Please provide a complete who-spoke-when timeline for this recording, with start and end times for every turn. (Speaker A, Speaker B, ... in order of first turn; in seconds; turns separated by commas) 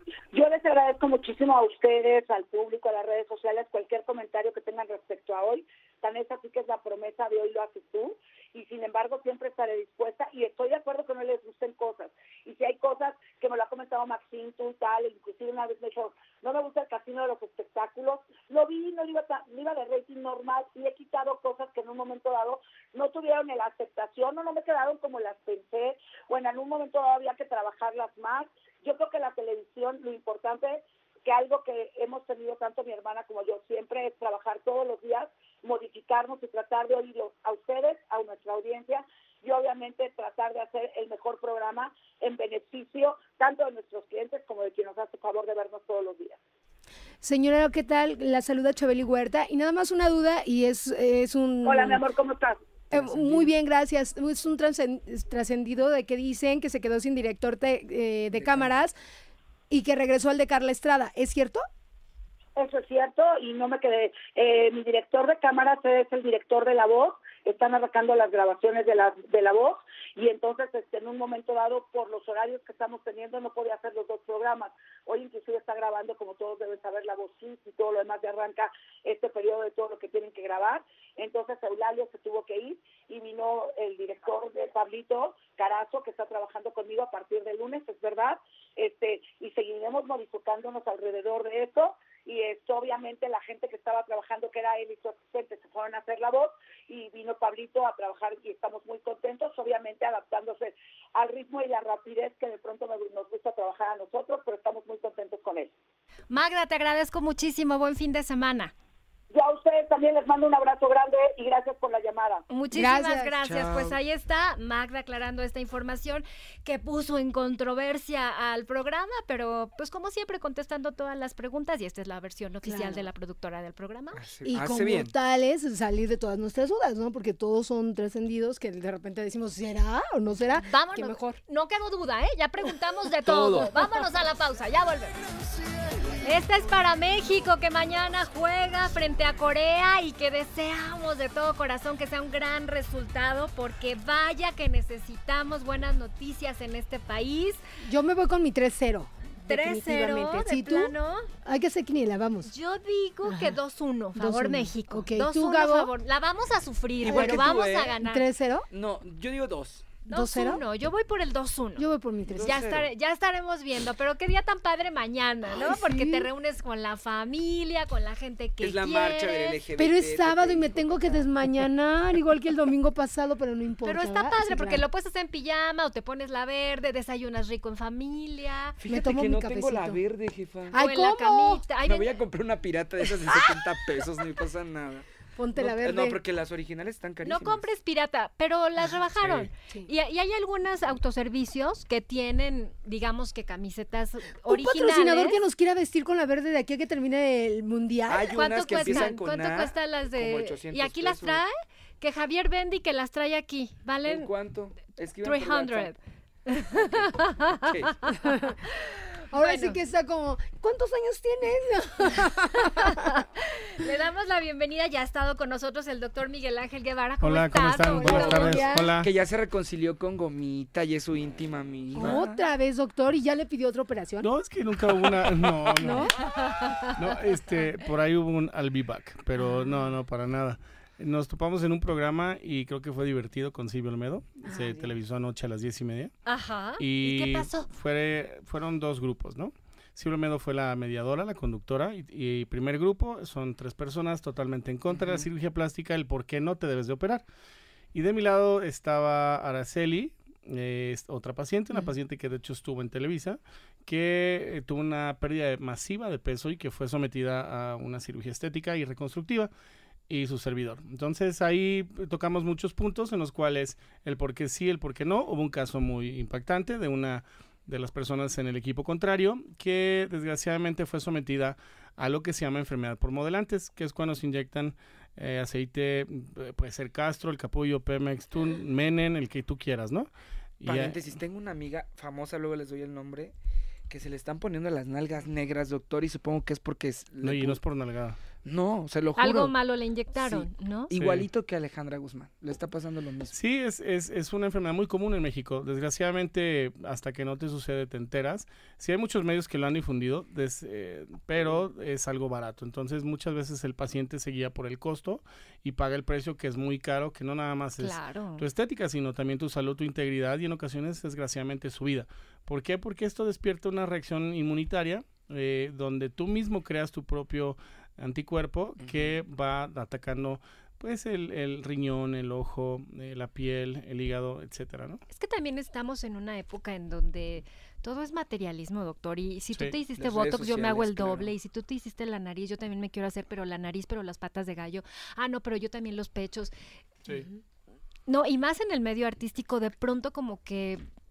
Speaker A: 0.3-46.4, Speaker B: 47.2-52.0, Speaker A: 51.6-52.6, Speaker B: 52.9-59.0, Speaker C: 52.9-53.5, Speaker C: 58.3-58.7, Speaker B: 59.7-61.6, Speaker A: 62.6-105.7, Speaker D: 106.3-108.7, Speaker A: 109.3-112.4, Speaker D: 112.5-124.2, Speaker B: 112.8-113.3, Speaker C: 113.4-114.0, Speaker B: 122.6-123.1, Speaker C: 124.2-125.1, Speaker B: 124.5-131.4, Speaker D: 130.6-135.2, Speaker C: 133.2-133.8, Speaker D: 136.2-147.6, Speaker B: 147.8-152.5, Speaker D: 149.4-151.3, Speaker D: 152.5-158.2, Speaker B: 153.3-153.6, Speaker B: 154.2-155.9, Speaker C: 157.0-158.0, Speaker B: 157.1-158.7, Speaker C: 158.7-160.0, Speaker D: 160.1-161.9, Speaker B: 160.1-160.6, Speaker B: 161.8-162.7, Speaker C: 162.3-162.9, Speaker D: 162.4-169.6, Speaker B: 165.6-166.3, Speaker C: 168.6-171.3, Speaker B: 169.8-174.8, Speaker D: 173.8-178.8, Speaker C: 178.8-180.8, Speaker B: 178.9-180.0, Speaker B: 180.7-181.7, Speaker D: 180.8-182.1, Speaker C: 181.8-187.7, Speaker B: 185.4-186.2, Speaker D: 187.2-195.4, Speaker B: 194.5-199.1, Speaker C: 198.1-201.4, Speaker D: 198.3-204.3, Speaker C: 204.1-205.9, Speaker D: 205.2-206.0, Speaker D: 206.5-207.7, Speaker C: 206.8-208.1, Speaker B: 208.3-208.6, Speaker B: 209.3-213.2, Speaker D: 209.4-209.8, Speaker D: 212.8-218.7, Speaker E: 217.2-219.1, Speaker B: 217.8-218.9, Speaker C: 219.0-222.4, Speaker B: 222.0-224.3, Speaker E: 224.2-226.2, Speaker B: 225.8-226.2, Speaker D: 226.5-226.8, Speaker E: 226.9-236.1, Speaker B: 229.4-229.9, Speaker B: 234.5-234.9, Speaker D: 236.3-237.7, Speaker E: 236.8-247.2, Speaker C: 244.9-245.3, Speaker E: 247.9-259.5, Speaker E: 260.1-281.2, Speaker C: 280.6-283.3, Speaker C: 283.9-287.6, Speaker E: 287.2-288.2, Speaker C: 288.4-289.5, Speaker D: 289.2-290.9, Speaker C: 290.2-293.4, Speaker E: 291.0-291.3, Speaker E: 293.3-325.0, Speaker D: 307.8-308.5, Speaker C: 318.8-319.2, Speaker D: 325.1-336.5, Speaker C: 330.0-331.3, Speaker D: 338.1-340.8